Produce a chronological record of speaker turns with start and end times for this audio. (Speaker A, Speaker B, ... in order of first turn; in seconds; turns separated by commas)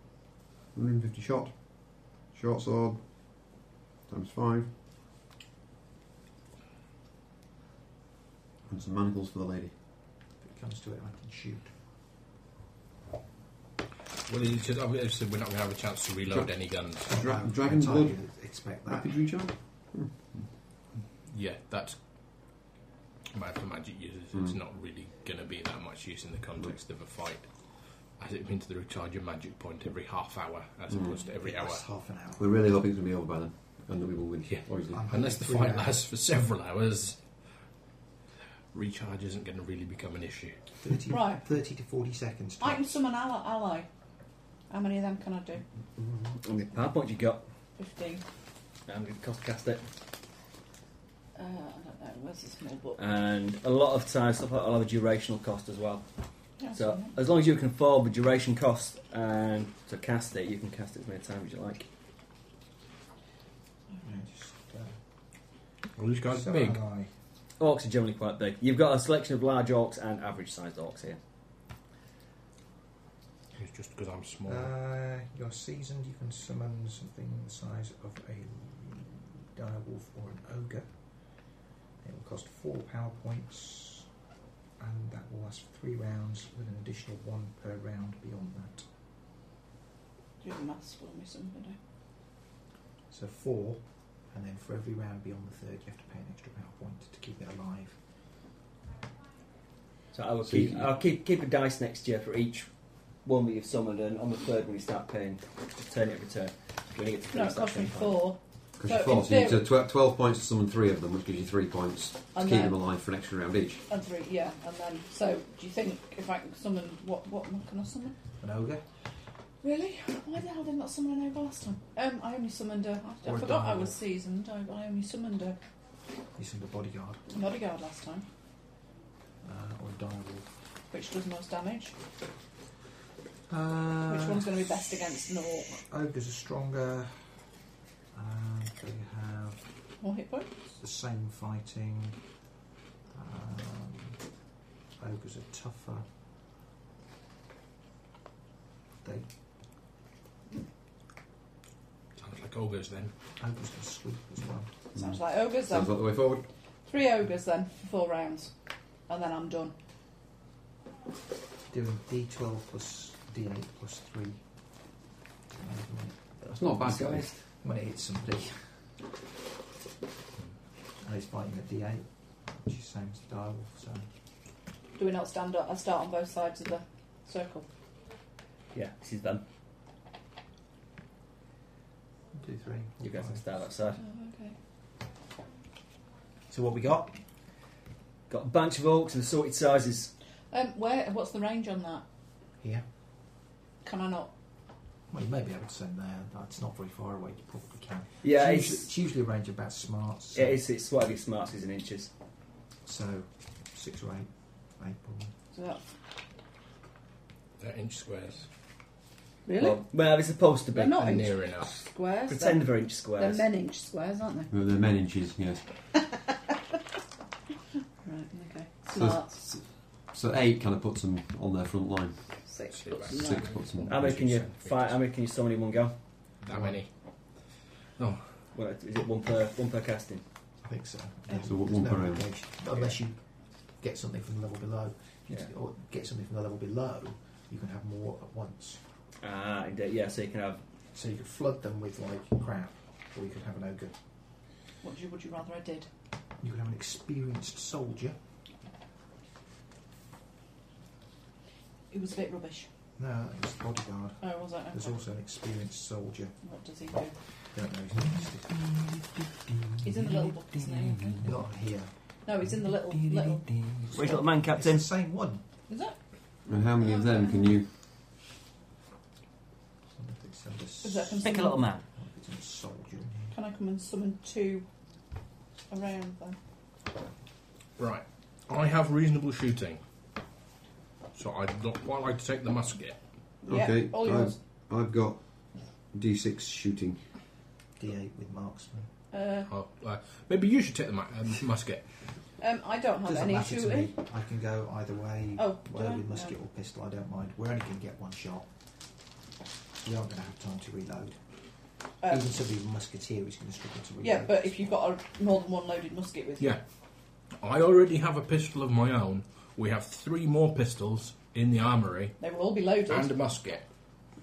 Speaker A: 0.7-3.0, Speaker A: 4.1-4.7, Speaker A: 8.7-9.7, Speaker B: 10.4-11.7, Speaker C: 14.3-17.1, Speaker A: 17.0-18.2, Speaker B: 17.1-19.1, Speaker A: 18.9-20.5, Speaker C: 21.2-22.0, Speaker C: 23.3-27.5, Speaker C: 28.2-31.8, Speaker B: 31.4-32.5, Speaker A: 32.4-35.0, Speaker C: 34.5-37.2, Speaker B: 34.9-36.0, Speaker C: 38.7-40.5, Speaker B: 40.8-43.0, Speaker D: 41.1-41.4, Speaker D: 42.6-43.9, Speaker D: 44.7-45.6, Speaker E: 46.0-47.4, Speaker D: 47.8-48.2, Speaker E: 48.9-49.8, Speaker D: 51.4-53.0, Speaker E: 53.0-56.0, Speaker D: 56.6-57.1, Speaker E: 56.7-61.9, Speaker B: 64.0-65.0, Speaker C: 66.0-66.8, Speaker B: 66.3-67.1, Speaker E: 67.6-71.2, Speaker C: 73.6-74.7, Speaker B: 74.5-80.9, Speaker B: 82.0-84.1, Speaker B: 84.8-88.9, Speaker D: 90.4-91.8, Speaker B: 93.1-98.0, Speaker E: 100.1-102.7, Speaker A: 100.5-100.9, Speaker E: 103.2-108.3, Speaker D: 107.3-109.6, Speaker A: 108.8-113.8, Speaker D: 112.3-112.7, Speaker D: 113.9-118.2, Speaker B: 118.4-118.8, Speaker D: 119.6-125.6, Speaker B: 123.2-124.0, Speaker B: 126.4-127.2, Speaker D: 127.3-128.2, Speaker B: 129.4-130.5, Speaker D: 130.9-131.9, Speaker B: 133.5-134.6, Speaker D: 134.1-135.8, Speaker B: 135.8-137.2, Speaker B: 138.1-139.6, Speaker D: 140.0-140.5, Speaker B: 140.7-142.2, Speaker B: 143.1-144.2, Speaker B: 145.0-146.0, Speaker B: 149.0-149.3, Speaker C: 152.2-153.1, Speaker B: 153.4-154.7, Speaker D: 154.9-155.9, Speaker A: 154.9-156.4, Speaker D: 156.9-158.5, Speaker D: 159.1-159.8, Speaker B: 161.7-164.4, Speaker B: 165.6-168.6, Speaker E: 166.4-167.3, Speaker A: 166.5-167.3, Speaker B: 171.0-174.1, Speaker D: 175.0-177.7, Speaker E: 178.7-179.4, Speaker B: 182.3-183.4, Speaker E: 183.0-184.0, Speaker D: 184.0-184.6, Speaker B: 186.5-187.2, Speaker E: 188.3-190.1, Speaker D: 190.5-192.0, Speaker D: 193.8-194.3, Speaker B: 195.1-200.6, Speaker E: 198.2-198.9, Speaker E: 200.3-202.1, Speaker B: 202.8-205.3, Speaker D: 205.5-205.8, Speaker C: 207.6-208.5, Speaker D: 209.4-209.8, Speaker E: 209.6-211.1, Speaker D: 210.7-214.5, Speaker C: 210.9-211.7, Speaker E: 212.3-213.4, Speaker A: 214.5-215.6, Speaker D: 218.0-219.5, Speaker A: 218.9-219.6, Speaker A: 220.1-222.2, Speaker D: 222.5-223.6, Speaker C: 222.7-225.0, Speaker A: 223.1-224.1, Speaker E: 223.9-225.9, Speaker C: 226.4-226.9, Speaker B: 226.5-226.8, Speaker C: 228.0-228.3, Speaker E: 228.5-230.2, Speaker B: 230.6-233.2, Speaker A: 231.3-232.3, Speaker E: 232.7-232.9, Speaker B: 233.8-238.8, Speaker E: 239.2-240.6, Speaker B: 240.9-243.9, Speaker D: 244.8-245.9, Speaker B: 246.4-248.2, Speaker D: 251.9-252.7, Speaker B: 253.0-256.4, Speaker D: 254.2-255.0, Speaker D: 256.4-257.1, Speaker B: 257.5-258.7, Speaker D: 259.8-261.3, Speaker B: 261.2-261.9, Speaker D: 262.2-263.5, Speaker B: 263.8-265.4, Speaker E: 263.9-264.9, Speaker D: 265.7-265.9, Speaker A: 266.5-267.7, Speaker D: 266.8-267.4, Speaker B: 269.9-271.3, Speaker D: 270.8-271.7, Speaker E: 271.2-271.8, Speaker B: 271.9-273.4, Speaker D: 273.3-274.6, Speaker D: 275.7-276.4, Speaker C: 277.8-279.8, Speaker C: 281.1-283.0, Speaker D: 283.4-284.4, Speaker A: 283.5-285.2, Speaker A: 285.9-287.0, Speaker B: 287.8-288.9, Speaker D: 289.1-289.5, Speaker C: 289.5-291.9, Speaker D: 292.4-293.9, Speaker B: 293.0-298.5, Speaker D: 295.4-296.3, Speaker B: 299.8-301.2, Speaker D: 302.0-302.3, Speaker B: 302.1-304.7, Speaker D: 304.0-306.6, Speaker C: 307.4-312.2, Speaker D: 312.2-313.3, Speaker C: 312.9-313.6